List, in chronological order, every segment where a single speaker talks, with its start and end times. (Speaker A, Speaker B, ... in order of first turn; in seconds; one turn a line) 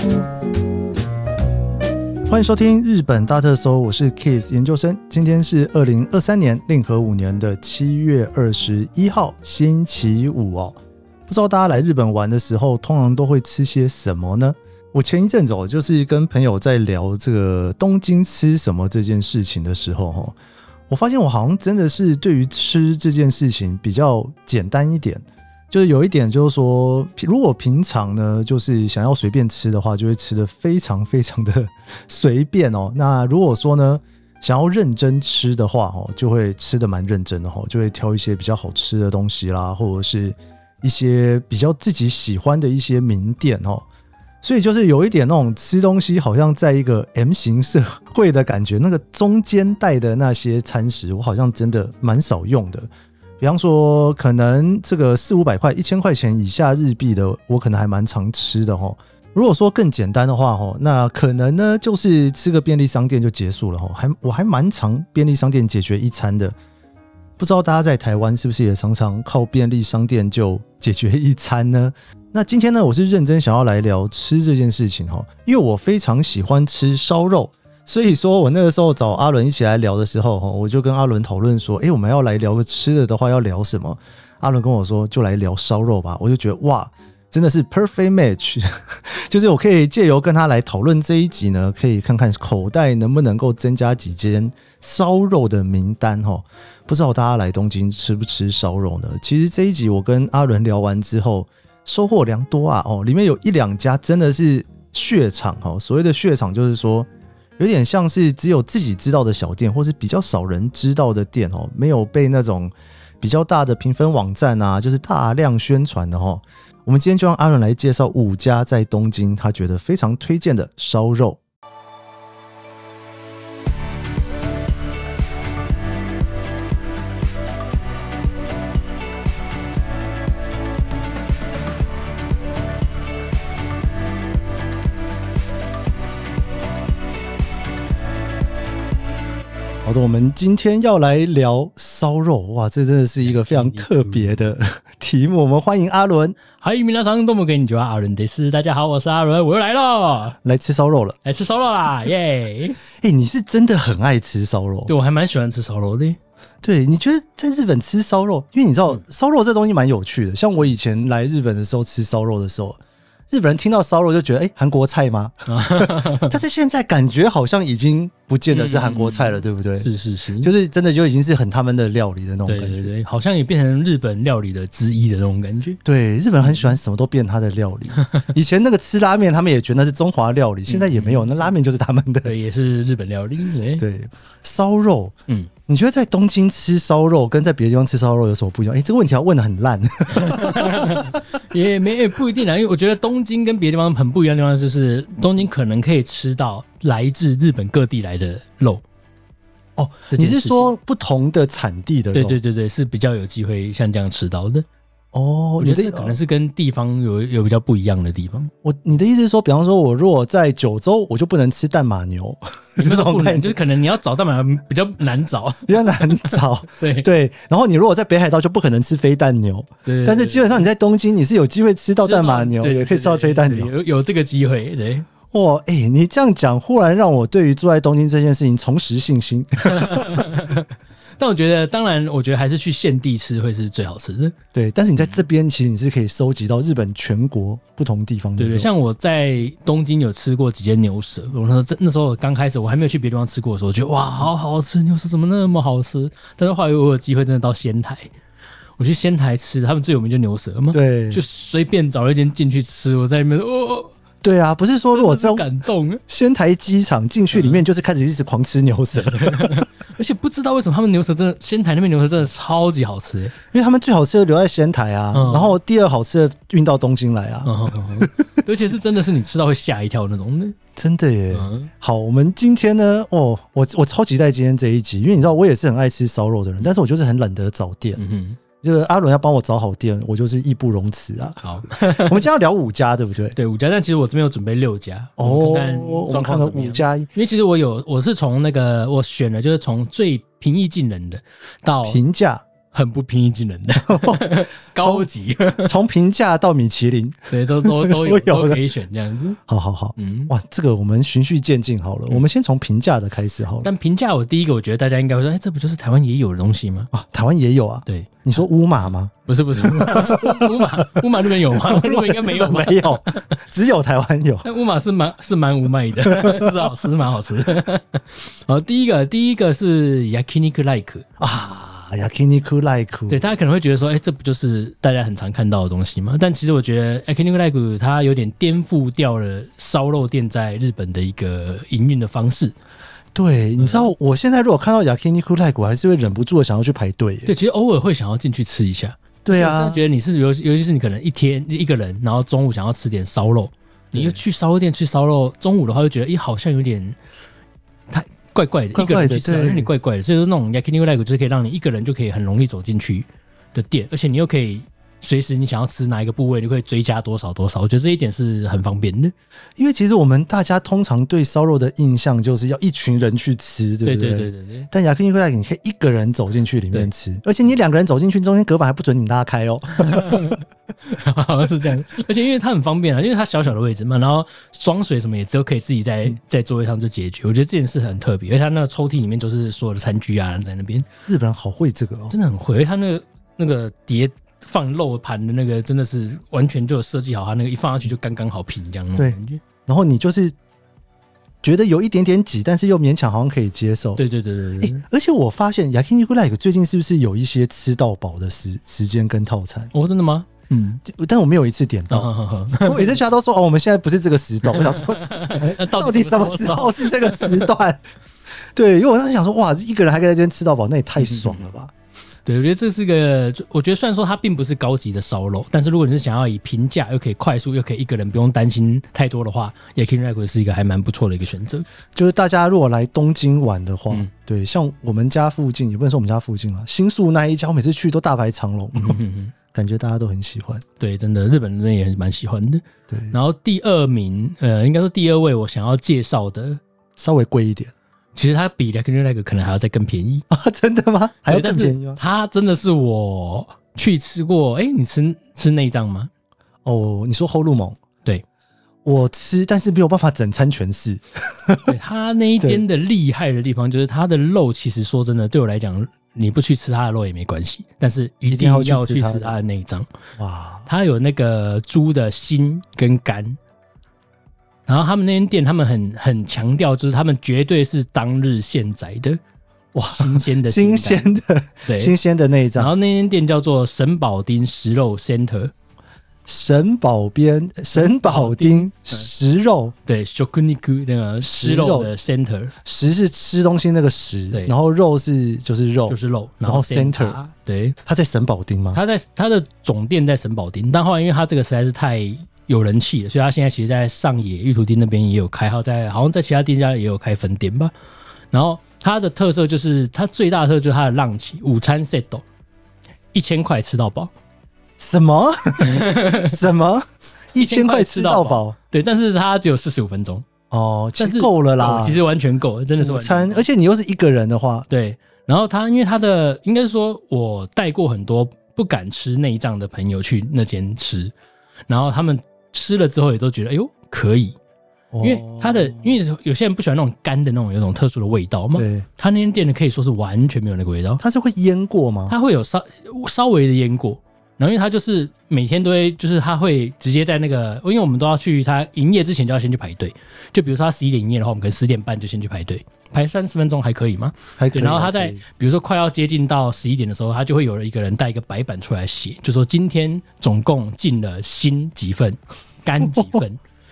Speaker A: 2.3-10.8
Speaker A: 11.3-20.3
Speaker A: 20.9-43.9
Speaker A: 44.4-52.9
Speaker A: 53.4-66.5
Speaker A: 67.4-107.1
Speaker A: 107.6-121.4
Speaker A: 139.8-146.4
Speaker B: 143.2-144.5
Speaker B: 146.6-150.4
Speaker A: 150.4-151.2
Speaker B: 151.2-152.8
Speaker A: 153.0-154.9
Speaker B: 154.9-156.2
Speaker A: 156.6-162.8
Speaker A: 163.3-169.9
Speaker B: 165.5-166.4
Speaker B: 168.5-170.5
Speaker A: 170.4-172.9
Speaker B: 172.5-175.8
Speaker A: 175.8-182.3
Speaker B: 176.4-176.8
Speaker B: 180.7-181.5
Speaker B: 182.2-183.8
Speaker A: 183.8-185.1
Speaker A: 185.7-191.2
Speaker B: 190.1-198.8
Speaker A: 199.8-202.4
Speaker B: 200.1-200.7
Speaker B: 202.1-204.7
Speaker A: 205.1-206.2
Speaker B: 205.6-208.5
Speaker A: 208.6-213.6
Speaker B: 212.8-217.1
Speaker A: 215.7-223.7
Speaker B: 219.8-220.6
Speaker B: 222.0-225.1
Speaker A: 225.3-230.5
Speaker B: 229.7-230.7
Speaker B: 231.2-234.3
Speaker A: 234.5-238.7
Speaker B: 238.4-248.1
Speaker B: 248.8-253.9
Speaker A: 250.7-251.2
Speaker A: 254.2-255.4
Speaker B: 254.9-256.0
Speaker A: 256.1-259.7
Speaker B: 257.3-257.6
Speaker B: 258.9-263.3
Speaker A: 263.5-268.4
Speaker B: 265.1-265.6
Speaker B: 267.4-270.6
Speaker A: 270.8-278.0
Speaker B: 271.3-271.7
Speaker B: 278.0-278.4
Speaker A: 278.6-283.4
Speaker B: 281.4-282.2
Speaker B: 283.3-292.0
Speaker A: 285.2-287.1
Speaker A: 291.8-292.4
Speaker B: 292.7-295.7
Speaker A: 293.8-295.1
Speaker A: 295.6-298.6
Speaker B: 297.3-299.4
Speaker A: 299.5-303.7
Speaker B: 300.0-300.3
Speaker B: 303.6-306.9
Speaker A: 306.9-314.5
Speaker B: 307.9-308.2
Speaker B: 309.2-313.0
Speaker B: 314.4-321.1
Speaker A: 316.1-316.6
Speaker A: 321.2-323.2
Speaker B: 323.1-332.6
Speaker A: 333.1-337.3
Speaker B: 333.6-333.9
Speaker B: 337.2-347.0
Speaker A: 339.2-339.8
Speaker A: 343.9-344.2
Speaker B: 347.9-359.1
Speaker A: 348.8-349.7
Speaker A: 359.6-370.3
Speaker B: 363.8-364.7
Speaker B: 369.8-380.9
Speaker A: 381.1-382.1
Speaker B: 382.1-389.4
Speaker A: 389.0-390.3
Speaker A: 391.4-394.0
Speaker B: 394.0-394.8
Speaker A: 394.6-399.7
Speaker B: 399.7-400.8
Speaker A: 400.8-407.9
Speaker B: 401.9-403.0
Speaker B: 404.4-407.5
Speaker A: 408.6-411.7
Speaker B: 411.0-411.4
Speaker B: 412.2-421.6
Speaker A: 421.9-430.6
Speaker B: 428.8-429.3
Speaker B: 430.8-436.6
Speaker A: 432.9-433.1
Speaker A: 437.0-437.7
Speaker B: 438.1-440.2
Speaker A: 440.3-442.0
Speaker B: 441.3-446.1
Speaker A: 446.6-447.8
Speaker A: 448.8-451.7
Speaker B: 451.7-459.9
Speaker A: 458.3-459.3
Speaker A: 460.2-460.7
Speaker B: 460.7-463.4
Speaker B: 464.7-469.2
Speaker A: 469.7-472.7
Speaker B: 469.9-471.1
Speaker B: 471.6-471.9
Speaker B: 472.6-475.5
Speaker A: 476.2-479.7
Speaker B: 477.7-479.1
Speaker B: 479.9-482.5
Speaker A: 481.2-481.9
Speaker A: 482.6-487.2
Speaker B: 485.9-487.8
Speaker A: 487.9-488.8
Speaker B: 488.7-497.7
Speaker B: 498.3-502.2
Speaker B: 503.1-504.1
Speaker A: 504.8-508.6
Speaker B: 505.6-506.4
Speaker B: 507.4-510.2
Speaker A: 510.5-512.0
Speaker B: 511.0-513.5
Speaker A: 512.8-514.7
Speaker B: 514.7-521.1
Speaker B: 521.7-524.4
Speaker A: 524.9-526.0
Speaker B: 525.0-531.0
Speaker A: 528.5-528.9
Speaker A: 531.0-532.1
Speaker B: 532.1-553.4
Speaker A: 544.4-545.2